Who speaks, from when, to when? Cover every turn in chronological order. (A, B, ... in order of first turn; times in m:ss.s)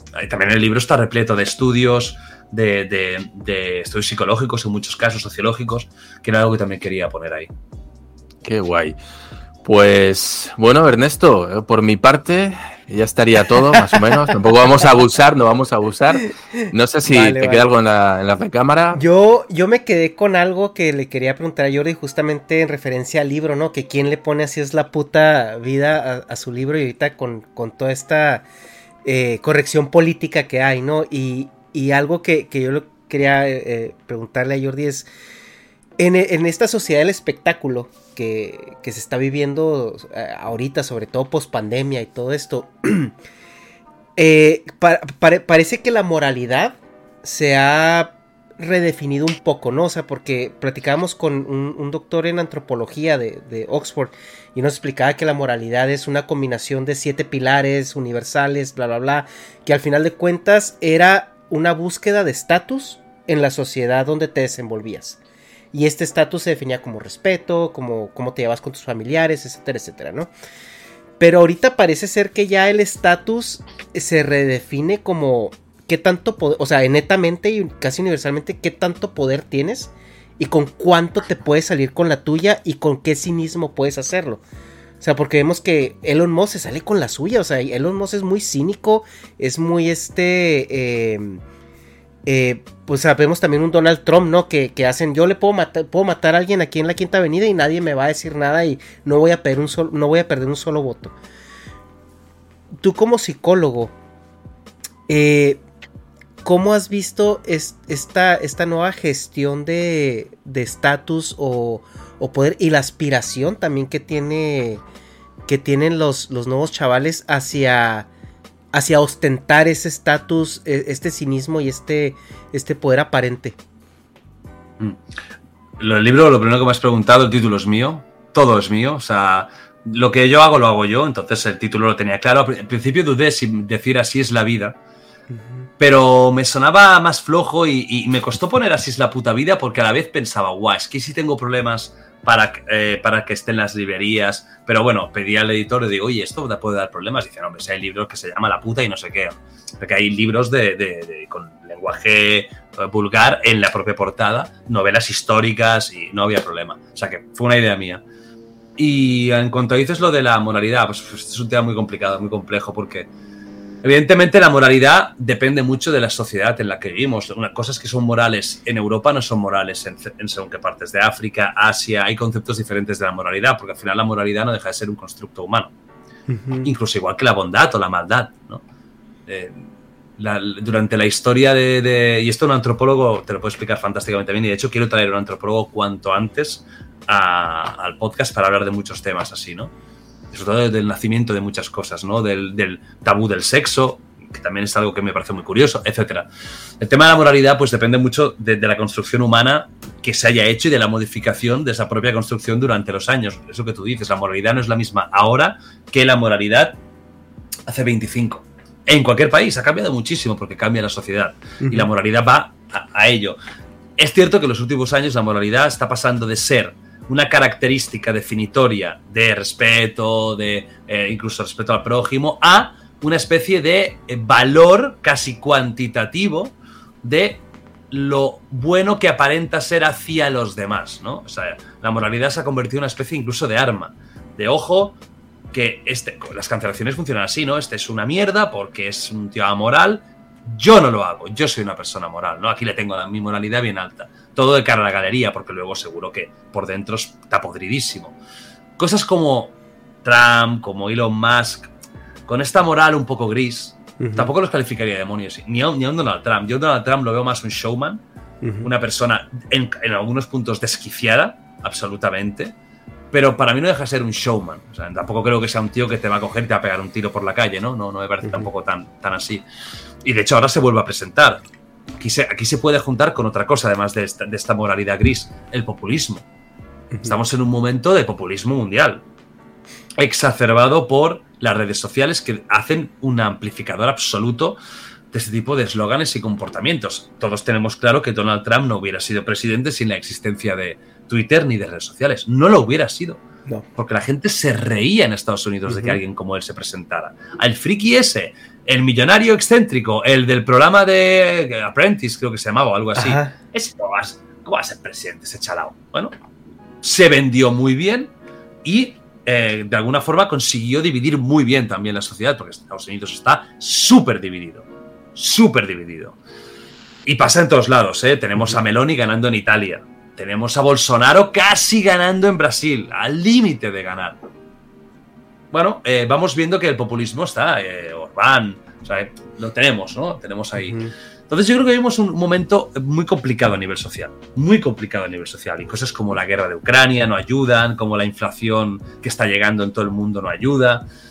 0:00.2-0:07.5 A
0:08.4-0:09.0 B
0:09.6-0:19.0 B
0:17.0-0:17.7 C
0:18.9-0:28.5 C
0:29.0-0:35.1 C
0:36.0-0:43.1 C
0:44.2-1:05.2 C
1:05.7-1:10.3 C
1:11.2-1:24.4 C
1:25.0-1:31.4 C
1:32.3-1:41.2 C
1:42.8-1:43.9 C
1:45.1-1:45.6 C
1:46.4-1:54.8 C
1:55.5-1:58.1 C
1:58.7-2:03.6 C
2:05.8-2:14.8 A
2:15.3-2:15.7 C
2:15.8-2:38.0 A
2:38.8-2:43.1 A
2:43.8-2:55.7 A
2:56.3-2:56.7 C
2:56.6-2:58.6 A
2:59.3-3:09.7 A
3:10.3-3:16.3 A
3:16.8-3:26.8 A
3:27.7-3:33.4 A
3:31.6-3:31.9 C
3:34.0-3:55.0 A
3:55.5-4:08.2 A
4:08.8-4:11.7 A
4:12.3-4:18.0 A
4:14.0-4:14.3 C
4:18.4-4:18.7 C
4:18.6-4:22.5 A
4:23.1-4:29.4 A
4:28.2-4:28.5 C
4:30.0-4:31.4 A
4:32.0-4:36.2 A
4:37.0-4:39.0 A
4:40.0-4:44.6 A
4:45.1-4:53.2 A
4:53.8-5:06.1 A
4:55.7-4:56.0 C
5:03.0-5:03.3 C
5:06.8-5:08.1 A
5:08.6-5:16.2 A
5:17.1-5:24.2 A
5:25.5-5:40.8 A
5:30.6-5:30.9 C